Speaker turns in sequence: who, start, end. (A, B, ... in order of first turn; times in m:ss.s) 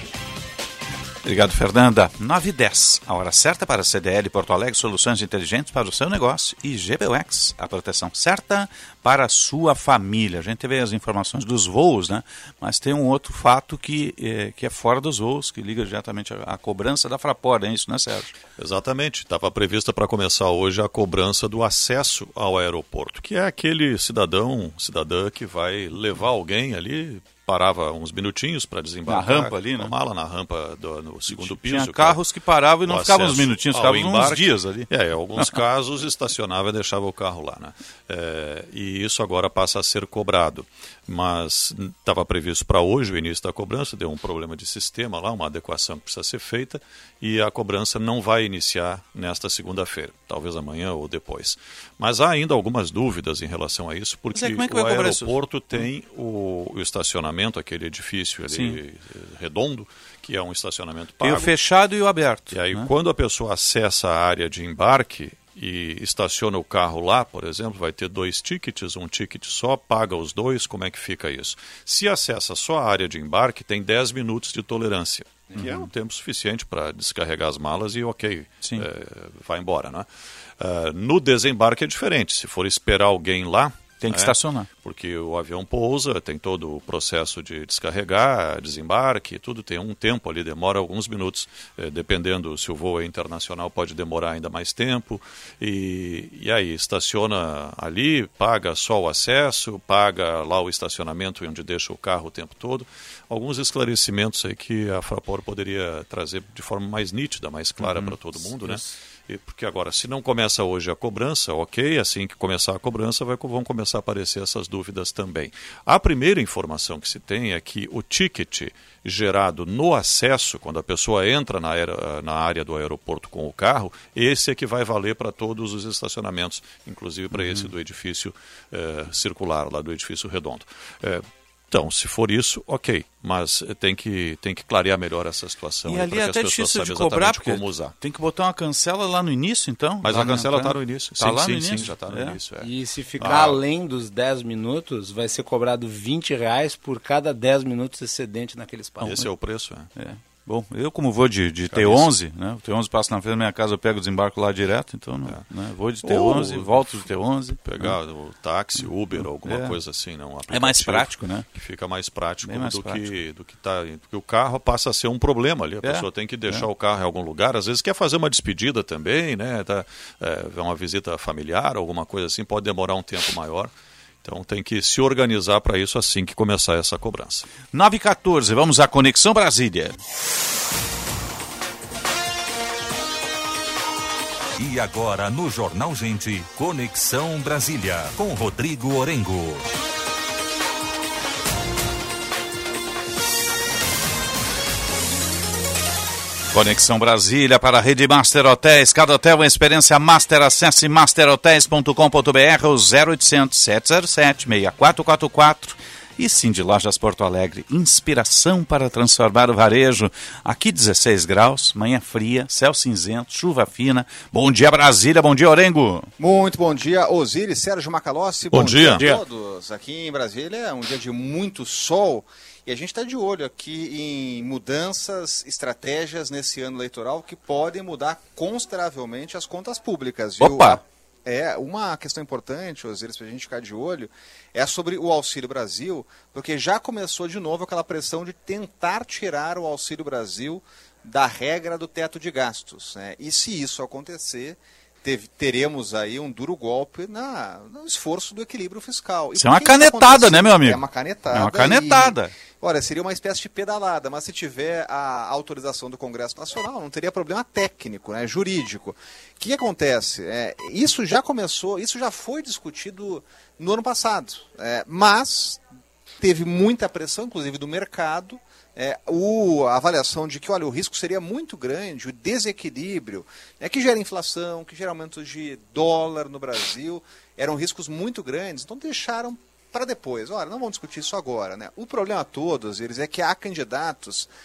0:01.2-0:18.4 A
0:18.6-0:32.2 B
0:29.1-0:29.9 A
0:31.3-0:35.6 A
0:32.9-1:01.5 B
0:54.3-0:55.9 A
0:58.5-0:58.8 A
1:01.2-1:02.9 A
1:02.5-1:20.1 B
1:15.6-1:15.8 A
1:20.6-2:17.9 B
1:24.0-1:24.7 A
1:47.8-1:48.9 A
2:07.3-2:07.7 A
2:15.9-2:22.4 A
2:20.0-2:22.7 B
2:22.6-2:29.2 C
2:23.2-2:23.6 B
2:29.0-2:29.9 B
2:30.0-2:38.0 A
2:31.7-2:32.1 B
2:36.0-2:37.0 B
2:37.6-2:53.7 B
2:39.2-2:39.8 A
2:40.5-2:41.5 A
2:42.4-2:43.1 A
2:45.8-2:46.7 A
2:54.2-2:57.5 B
2:57.7-3:00.0 A
3:04.6-3:09.7 D
3:16.5-3:36.1 A
3:36.2-4:25.6 E
3:38.5-3:39.1 B
3:39.0-3:39.2 A
3:50.4-3:50.8 A
4:09.4-4:12.3 A
4:26.2-4:44.3 E